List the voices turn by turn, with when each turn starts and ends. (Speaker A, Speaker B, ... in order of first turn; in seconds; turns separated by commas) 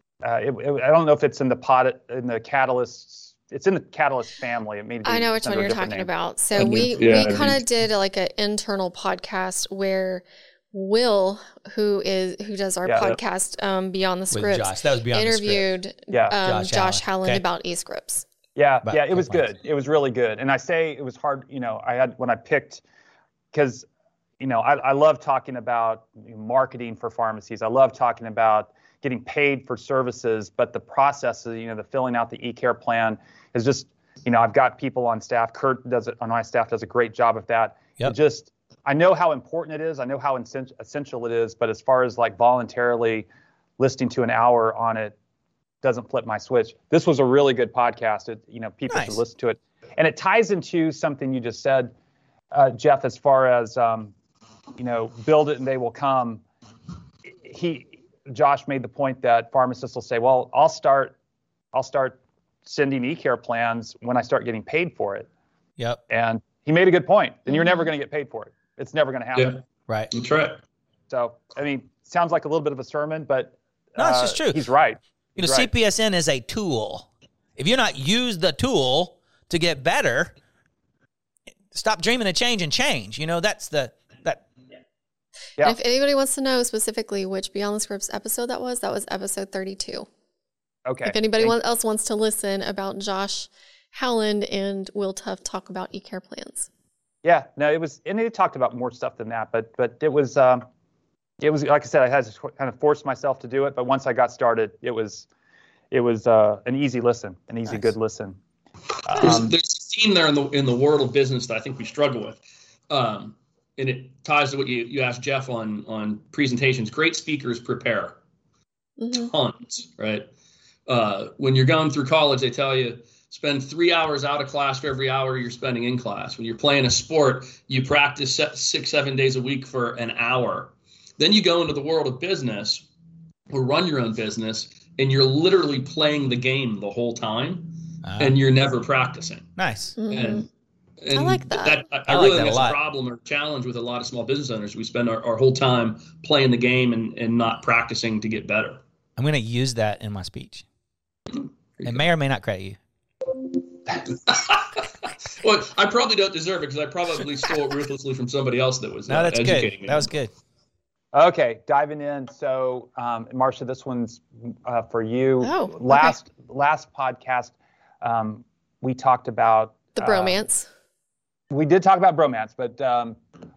Speaker A: 0.2-6.1, Speaker B: 5.0-18.2, Speaker C: 6.5-7.6, Speaker A: 12.8-13.1, Speaker D: 14.3-15.6, Speaker D: 16.3-17.4, Speaker A: 18.6-22.8, Speaker D: 18.8-19.4, Speaker A: 23.5-23.9, Speaker A: 24.4-43.3, Speaker A: 43.8-45.1, Speaker A: 45.8-51.9, Speaker D: 48.9-49.2, Speaker A: 52.5-54.1, Speaker A: 54.8-56.4, Speaker A: 57.4-61.1, Speaker A: 61.7-65.3, Speaker A: 66.1-69.6, Speaker C: 70.1-70.6, Speaker A: 71.1-75.7, Speaker D: 74.0-74.6, Speaker D: 75.4-80.3, Speaker D: 81.7-84.4, Speaker B: 85.6-90.1, Speaker A: 90.8-91.5, Speaker B: 91.0-96.7, Speaker A: 97.2-100.6, Speaker A: 101.4-105.3, Speaker A: 105.9-108.4, Speaker A: 109.1-109.5, Speaker C: 109.2-118.2, Speaker B: 119.0-119.3, Speaker C: 119.1-120.3, Speaker C: 120.9-132.8, Speaker C: 133.5-139.5, Speaker D: 138.0-138.3, Speaker D: 139.6-139.9, Speaker B: 140.0-140.4, Speaker C: 140.1-140.5, Speaker C: 141.0-148.8, Speaker B: 141.1-141.8, Speaker D: 142.1-142.8, Speaker D: 149.2-150.6, Speaker D: 151.8-152.8, Speaker C: 154.0-160.1, Speaker D: 159.1-160.3, Speaker A: 161.1-170.4, Speaker B: 165.4-166.2, Speaker B: 169.9-170.7, Speaker A: 171.5-173.2